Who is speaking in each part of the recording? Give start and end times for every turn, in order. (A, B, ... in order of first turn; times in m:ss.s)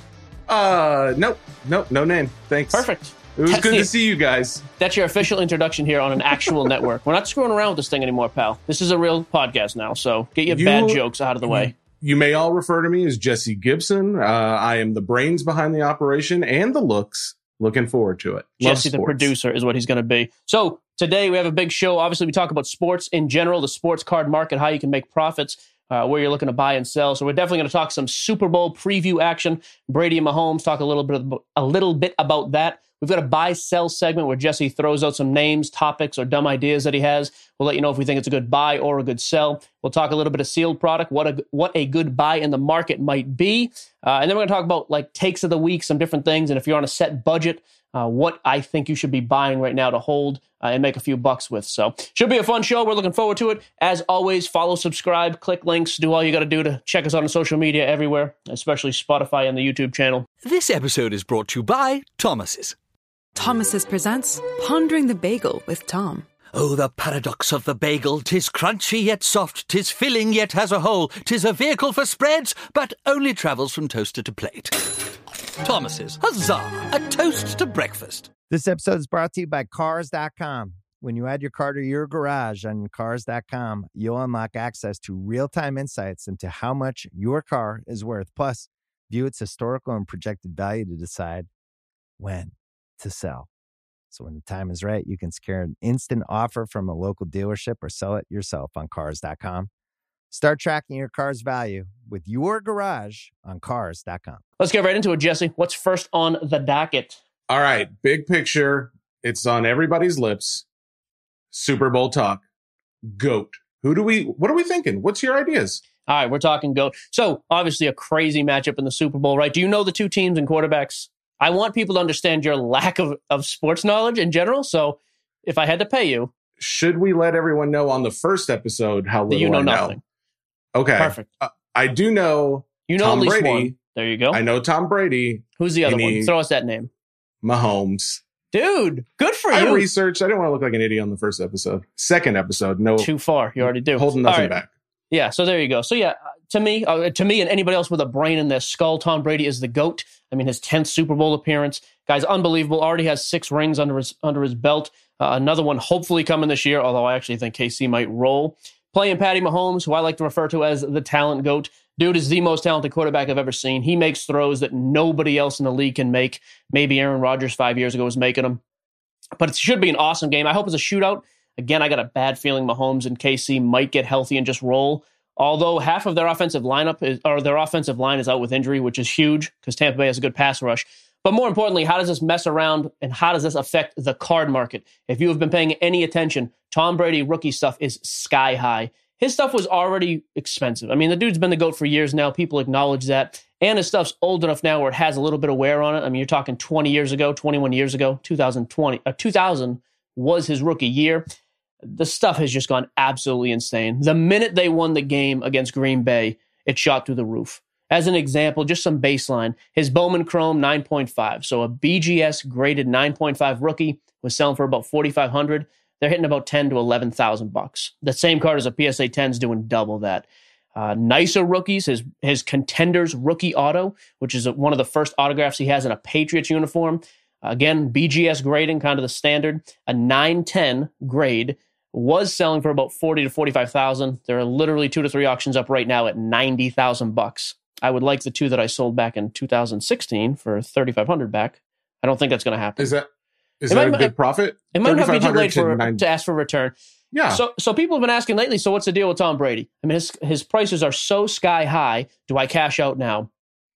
0:00.5-0:04.7 A
0:02.7-0:03.9 B
0:04.8-0:11.7 B
0:10.5-0:19.3 A
0:18.6-1:00.3 B
1:00.4-1:02.8 C
1:03.4-1:06.3 D
1:06.5-1:14.9 C
1:15.6-1:18.3 C
1:18.5-1:31.5 E
1:32.2-1:33.5 E
1:34.1-1:39.7 E
1:40.3-1:44.4 E
1:44.6-1:47.2 B
1:47.5-1:50.6 A
1:51.5-1:52.4 A
1:53.1-1:55.8 A
1:56.1-2:06.3 B
2:06.6-2:10.0 A
2:09.3-2:10.0 B
2:10.8-2:13.8 A
2:11.0-2:11.3 B
2:12.9-2:14.4 B
2:14.3-2:16.3 A
2:15.6-2:16.9 B
2:17.4-2:18.2 A
2:18.5-2:19.9 B
2:19.5-2:24.7 A
2:23.0-2:24.5 B
2:25.1-2:48.6 B
2:49.4-3:21.3 B
3:21.8-4:02.9 B
4:02.8-4:03.1 A
4:03.6-4:06.0 A
4:03.7-4:04.1 B
4:04.7-4:06.8 B
4:07.1-4:07.4 A
4:07.3-4:13.3 B